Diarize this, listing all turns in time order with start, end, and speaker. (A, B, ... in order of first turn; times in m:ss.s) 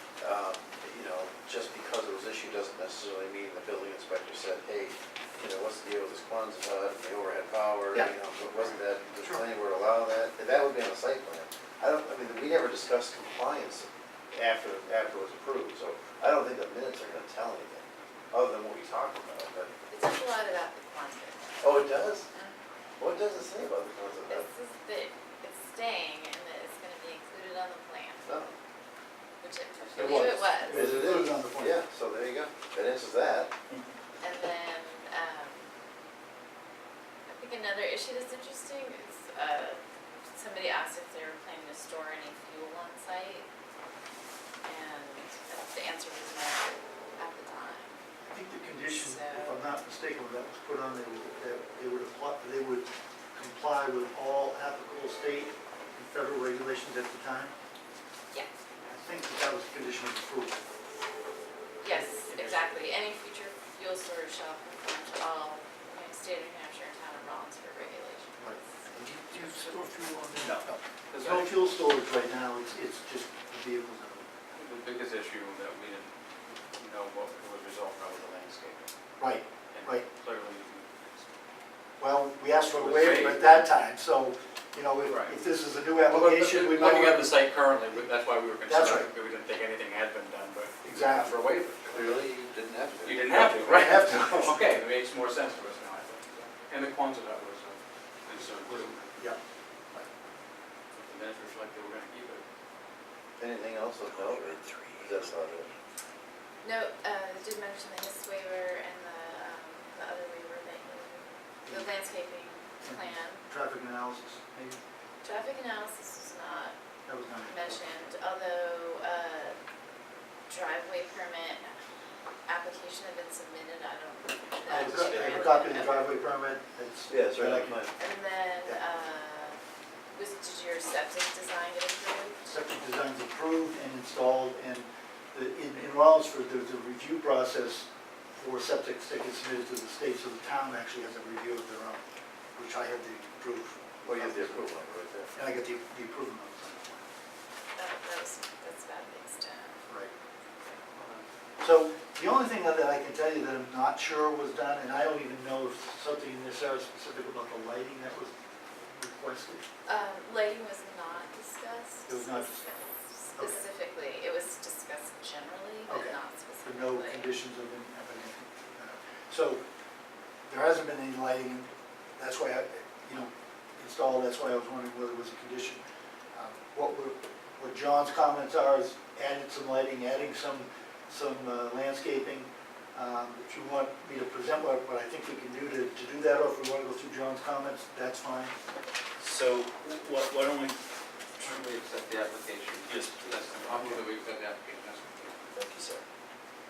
0:00.2-0:19.7 A
0:19.9-0:22.6 B
0:21.6-0:22.3 A
0:23.0-0:24.5 A
0:24.3-0:28.3 B
0:28.2-0:28.5 A
0:29.4-0:31.2 B
0:29.9-0:31.8 C
0:30.0-0:33.5 A
0:34.2-0:35.7 B
0:37.3-0:43.5 B
0:44.6-0:48.0 B
0:48.2-0:57.5 C
0:48.8-0:49.6 B
0:58.8-1:00.6 C
1:01.8-1:08.7 B
1:01.9-1:02.8 C
1:08.4-1:14.3 C
1:09.4-1:09.8 B
1:11.1-1:11.6 D
1:14.5-1:18.9 D
1:19.2-1:20.1 C
1:19.7-1:21.3 D
1:22.0-1:28.1 C
1:22.7-1:23.7 D
1:25.0-1:25.4 D
1:26.0-1:32.2 D
1:28.6-1:29.1 C
1:30.8-1:31.8 C
1:31.9-1:33.3 A
1:33.0-1:39.2 D
1:33.3-1:34.7 C
1:38.4-1:39.4 C
1:40.9-1:42.4 D
1:43.4-1:45.7 A
1:46.6-1:53.4 B
1:52.8-1:54.8 C
1:55.2-1:56.8 B
1:57.1-1:57.7 C
1:57.4-1:59.6 B
2:00.5-2:01.7 B
2:02.5-2:06.3 B
2:04.7-2:07.9 C
2:07.1-2:07.9 A
2:08.0-2:09.6 B
2:10.1-2:12.4 B
2:12.4-2:22.0 C
2:22.6-2:24.6 C
2:24.0-2:25.3 A
2:25.3-2:27.1 C
2:27.8-2:29.8 B
2:31.0-2:31.2 D
2:31.6-2:39.6 C
2:39.9-2:47.4 B
2:42.1-2:42.8 C
2:45.9-2:49.6 C
2:50.5-2:55.8 C
2:56.3-3:08.6 C
3:09.2-3:10.8 E
3:11.4-3:15.4 D
3:12.9-3:14.0 E
3:15.5-3:16.0 E